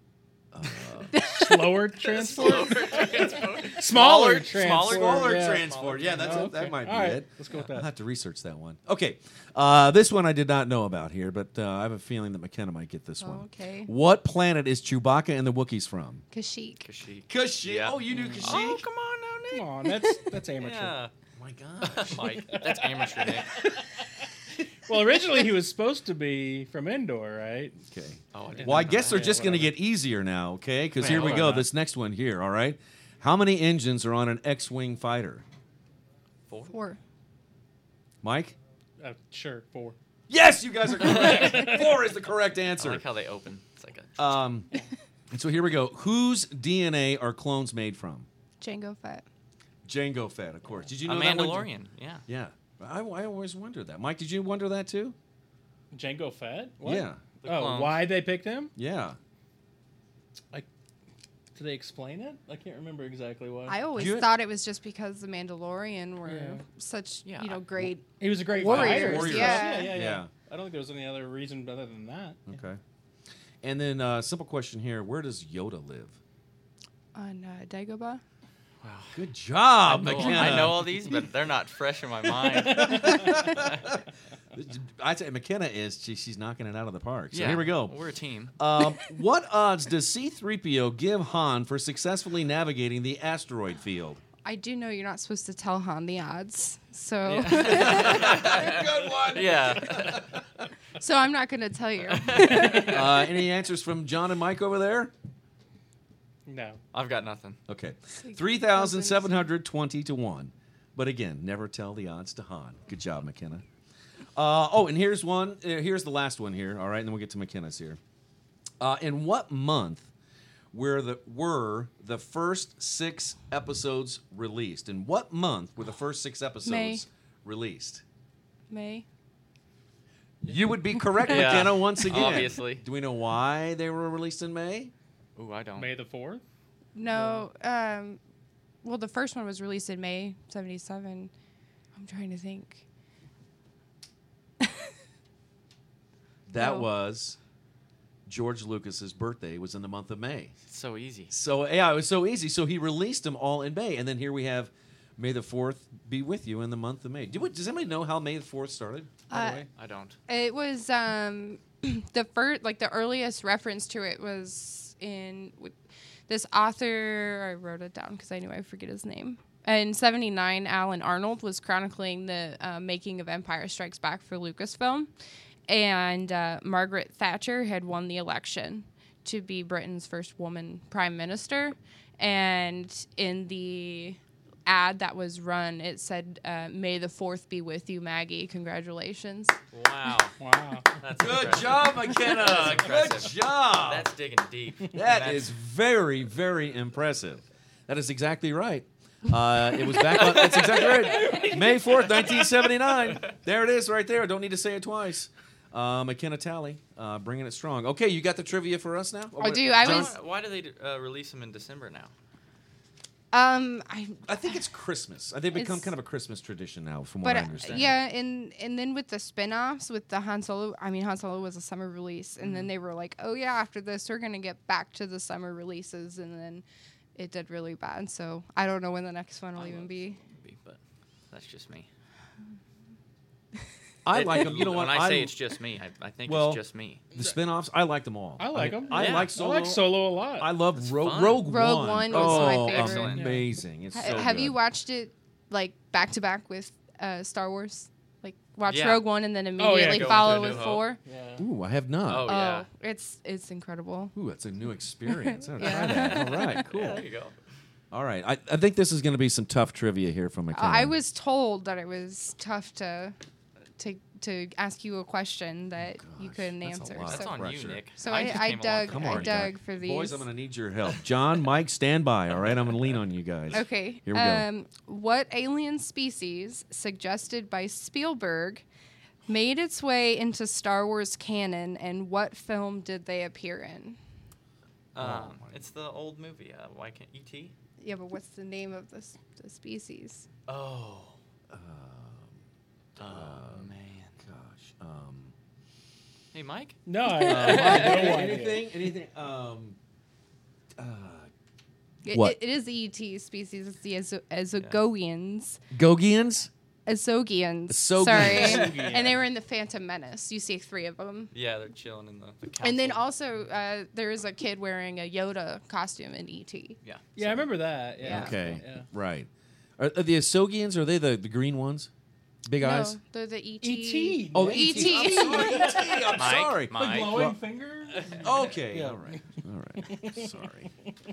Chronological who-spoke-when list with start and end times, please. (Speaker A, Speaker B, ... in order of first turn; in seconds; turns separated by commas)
Speaker A: 0.5-1.1, Speaker B: 1.1-1.8, Speaker C: 1.2-7.9, Speaker D: 2.0-6.6, Speaker A: 4.7-16.2, Speaker B: 13.2-13.9, Speaker B: 16.3-16.8, Speaker D: 16.8-21.1, Speaker A: 17.3-18.8, Speaker C: 18.2-18.5, Speaker C: 19.5-21.0, Speaker A: 21.4-22.4, Speaker D: 21.8-23.6, Speaker C: 22.5-24.1, Speaker C: 24.9-27.8, Speaker A: 27.9-35.4, Speaker D: 28.3-29.6, Speaker C: 28.6-29.7, Speaker D: 31.0-31.6, Speaker C: 31.0-31.7, Speaker B: 36.7-37.0, Speaker A: 38.2-38.5, Speaker C: 39.0-39.9, Speaker A: 40.3-43.0, Speaker D: 41.0-41.8, Speaker C: 41.0-41.8, Speaker D: 42.8-44.2, Speaker A: 44.2-44.7, Speaker A: 45.3-48.3, Speaker B: 48.6-49.2, Speaker A: 49.8-51.7, Speaker D: 51.0-52.2, Speaker A: 52.3-55.1, Speaker C: 55.9-58.7, Speaker A: 56.8-57.2, Speaker D: 57.4-58.1, Speaker A: 58.8-59.2, Speaker C: 61.5-63.8, Speaker B: 63.7-70.0, Speaker A: 64.0-64.3, Speaker C: 66.2-66.6, Speaker D: 67.2-67.6, Speaker C: 68.2-72.5, Speaker A: 68.6-70.3, Speaker A: 72.5-72.8, Speaker A: 73.6-76.2, Speaker B: 77.1-78.2, Speaker D: 78.8-79.2, Speaker A: 79.1-80.9, Speaker D: 79.8-83.8, Speaker C: 82.4-83.4, Speaker A: 82.7-87.9, Speaker D: 87.3-88.5, Speaker A: 88.6-94.2, Speaker B: 94.4-98.6, Speaker D: 97.2-100.3, Speaker A: 97.6-100.4, Speaker B: 101.0-103.2, Speaker D: 102.1-103.0, Speaker A: 102.8-105.1, Speaker C: 106.5-106.8, Speaker D: 106.9-107.6, Speaker A: 107.7-113.6, Speaker B: 108.2-109.5, Speaker A: 114.3-118.0, Speaker A: 118.8-120.1, Speaker A: 120.7-128.0, Speaker B: 126.6-127.0, Speaker B: 128.7-129.1, Speaker A: 130.4-134.9, Speaker D: 131.2-132.8, Speaker D: 135.3-135.9, Speaker C: 135.8-136.4, Speaker B: 136.9-138.2, Speaker C: 137.1-137.4, Speaker B: 138.8-141.3, Speaker B: 141.9-142.8, Speaker B: 144.6-144.9, Speaker A: 146.5-147.4, Speaker B: 146.6-146.9, Speaker A: 148.3-150.5, Speaker D: 150.7-151.3, Speaker A: 151.3-159.6, Speaker B: 159.3-159.7, Speaker D: 159.7-160.2, Speaker B: 160.3-165.7, Speaker B: 166.3-175.1, Speaker B: 175.7-189.6, Speaker D: 189.7-190.4, Speaker C: 190.4-191.0, Speaker D: 190.9-195.5, Speaker A: 191.2-194.1, Speaker A: 194.9-210.1, Speaker D: 200.0-202.6, Speaker B: 209.4-210.1, Speaker D: 209.7-212.1, Speaker B: 213.3-214.5, Speaker A: 214.2-218.0, Speaker B: 215.5-215.9, Speaker B: 217.2-226.6, Speaker D: 222.4-222.7, Speaker B: 227.2-230.2, Speaker D: 229.6-230.8, Speaker D: 231.3-231.9, Speaker A: 234.0-235.3, Speaker D: 234.1-237.0, Speaker A: 236.2-236.6, Speaker A: 237.1-244.6, Speaker C: 238.4-240.5, Speaker D: 238.9-239.3, Speaker D: 240.8-241.5, Speaker B: 241.4-243.2, Speaker D: 242.1-243.4, Speaker C: 243.1-243.4, Speaker B: 243.9-251.0, Speaker D: 248.7-249.0, Speaker C: 249.6-251.5, Speaker D: 249.8-250.8, Speaker A: 251.4-252.3, Speaker D: 252.1-252.7, Speaker B: 252.2-254.1, Speaker A: 254.1-257.0, Speaker B: 255.1-256.6, Speaker D: 255.7-257.4, Speaker A: 257.9-261.0, Speaker B: 260.5-263.1, Speaker B: 263.8-267.4, Speaker A: 265.9-274.4, Speaker D: 267.0-269.5, Speaker B: 268.0-270.3, Speaker D: 272.4-272.8, Speaker B: 273.5-278.6, Speaker B: 279.3-284.0, Speaker D: 284.9-287.5, Speaker A: 284.9-285.6, Speaker B: 287.8-290.3, Speaker D: 290.5-291.2, Speaker A: 291.5-292.4, Speaker A: 292.9-293.7, Speaker D: 293.0-294.1, Speaker A: 294.2-295.3, Speaker D: 296.3-296.8, Speaker C: 296.9-298.7, Speaker B: 297.0-297.7, Speaker A: 297.2-299.8, Speaker D: 297.5-298.2, Speaker A: 300.8-301.3, Speaker B: 302.0-305.6, Speaker A: 302.1-302.4, Speaker A: 305.7-306.5, Speaker B: 306.9-311.3, Speaker A: 307.7-308.8, Speaker C: 308.2-309.2, Speaker D: 311.3-313.0, Speaker B: 312.6-316.8, Speaker C: 317.1-318.9, Speaker A: 317.2-317.4, Speaker A: 318.0-321.9, Speaker B: 318.0-318.3, Speaker A: 322.4-323.0, Speaker B: 322.6-325.7, Speaker C: 323.6-329.2, Speaker A: 324.3-327.4, Speaker D: 326.1-327.3, Speaker D: 328.0-328.3, Speaker A: 328.2-330.7, Speaker C: 329.9-330.3